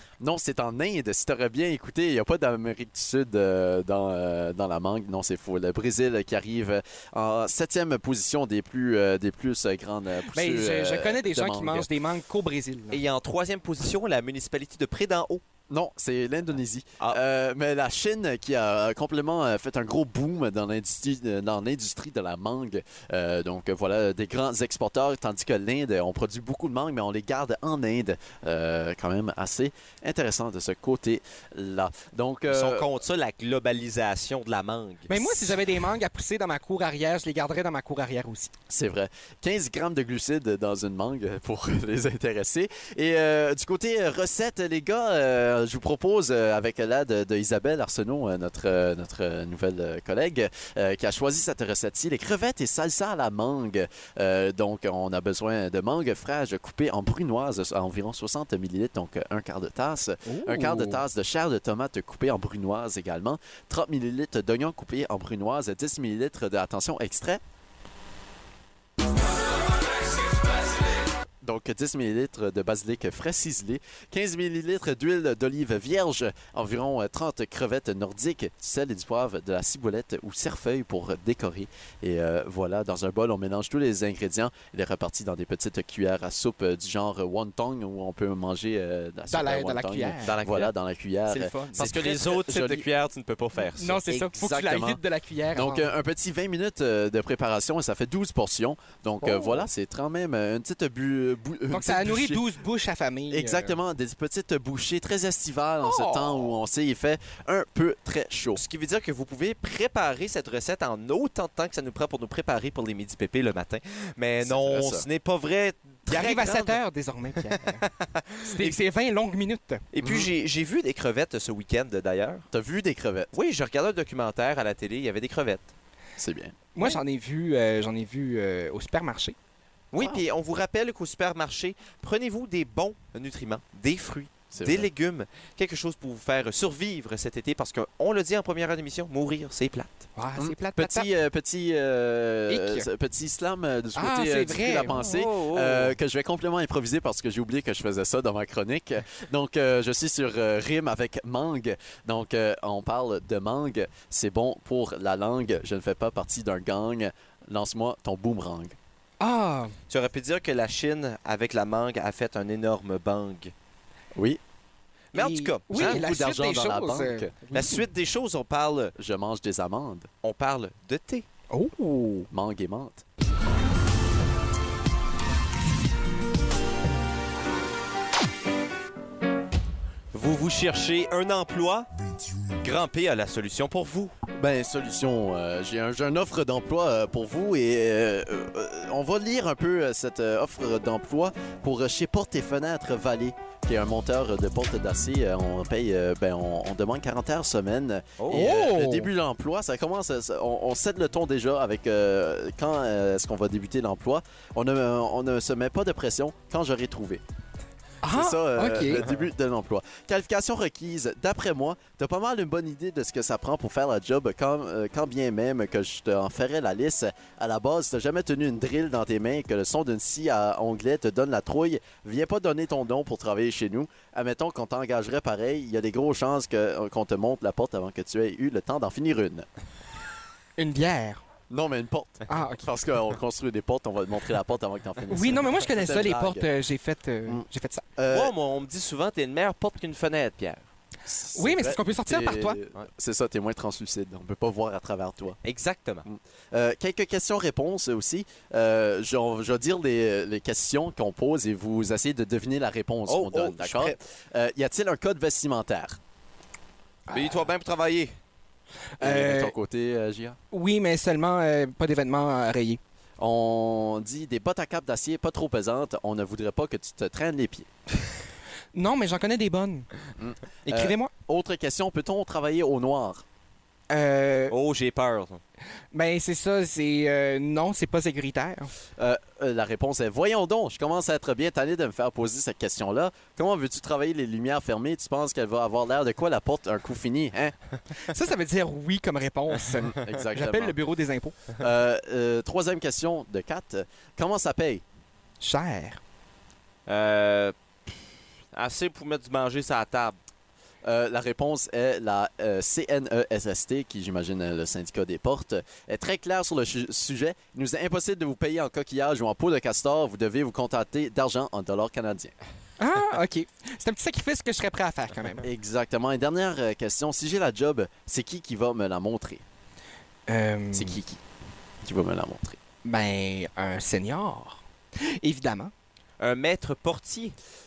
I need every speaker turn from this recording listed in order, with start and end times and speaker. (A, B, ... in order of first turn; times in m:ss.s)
0:00.2-0:11.9 A
0:10.3-0:13.0 B
0:12.9-0:15.4 C
0:15.7-0:32.9 A
0:32.5-0:35.2 C
0:35.1-0:38.5 B
0:38.7-1:07.4 A
1:00.2-1:01.0 B
1:11.4-1:32.9 A
1:29.3-1:30.7 B
1:31.3-1:32.0 B
1:31.8-1:34.0 C
1:33.8-1:35.9 B
1:34.0-1:35.0 A
1:35.5-1:42.5 A
1:39.2-1:39.6 B
1:41.7-1:43.8 B
1:43.3-1:48.6 A
1:45.8-1:46.5 B
1:48.6-1:56.8 C
1:54.4-1:55.1 A
1:56.1-1:57.8 B
1:57.5-1:58.8 C
1:58.4-1:59.8 B
1:59.9-2:02.4 C
2:00.0-2:00.3 A
2:02.5-2:03.3 A
2:03.3-2:05.7 C
2:06.2-2:06.6 A
2:06.7-2:09.3 B
2:09.9-2:20.1 C
2:14.5-2:14.9 A
2:20.2-2:21.1 B
2:20.4-2:38.8 A
2:22.5-2:22.9 B
2:24.0-2:24.9 B
2:24.9-2:26.0 C
2:39.2-2:39.7 B
2:39.9-2:43.5 C
2:44.1-2:44.4 A
2:45.1-2:46.0 C
2:45.1-2:47.8 B
2:45.7-2:47.3 A
2:47.5-2:48.9 C
2:49.0-2:50.1 A
2:50.2-2:51.3 C
2:51.5-2:52.3 B
2:52.3-2:53.0 A
3:00.1-3:01.9 C
3:02.6-3:04.1 C
3:04.4-3:27.2 A
3:18.2-3:18.5 C
3:18.3-3:19.1 B
3:28.0-3:29.0 B
3:28.1-3:49.5 A
3:50.6-3:51.2 B
3:51.5-3:56.5 A
3:52.3-3:52.7 B
3:55.1-3:57.8 B
3:58.0-3:58.3 A
3:58.1-4:00.6 C
4:01.1-4:05.4 A
4:01.3-4:02.6 B
4:05.4-4:06.0 C
4:06.0-4:16.0 A
4:13.1-4:14.0 C
4:17.1-4:17.4 B
4:17.1-4:18.1 C
4:19.0-4:19.5 B
4:19.0-4:20.4 A
4:20.5-4:22.8 B
4:23.2-4:27.7 A
4:28.7-4:29.9 B
4:30.2-4:33.2 A
4:30.6-4:31.1 B
4:33.9-4:34.5 B
4:34.5-4:35.4 C
4:35.9-4:38.7 B
4:39.0-4:47.6 A
4:48.0-4:51.4 B
4:49.8-4:50.8 A
4:51.6-4:54.8 A
4:55.4-4:56.0 B
4:56.9-4:57.6 C
4:58.5-5:00.2 C
5:00.8-5:12.3 A
5:12.8-5:15.4 B
5:15.4-5:19.4 A
5:20.3-5:21.0 B
5:20.7-5:21.2 A
5:21.8-5:22.6 A
5:22.8-5:25.7 B
5:26.2-5:27.4 C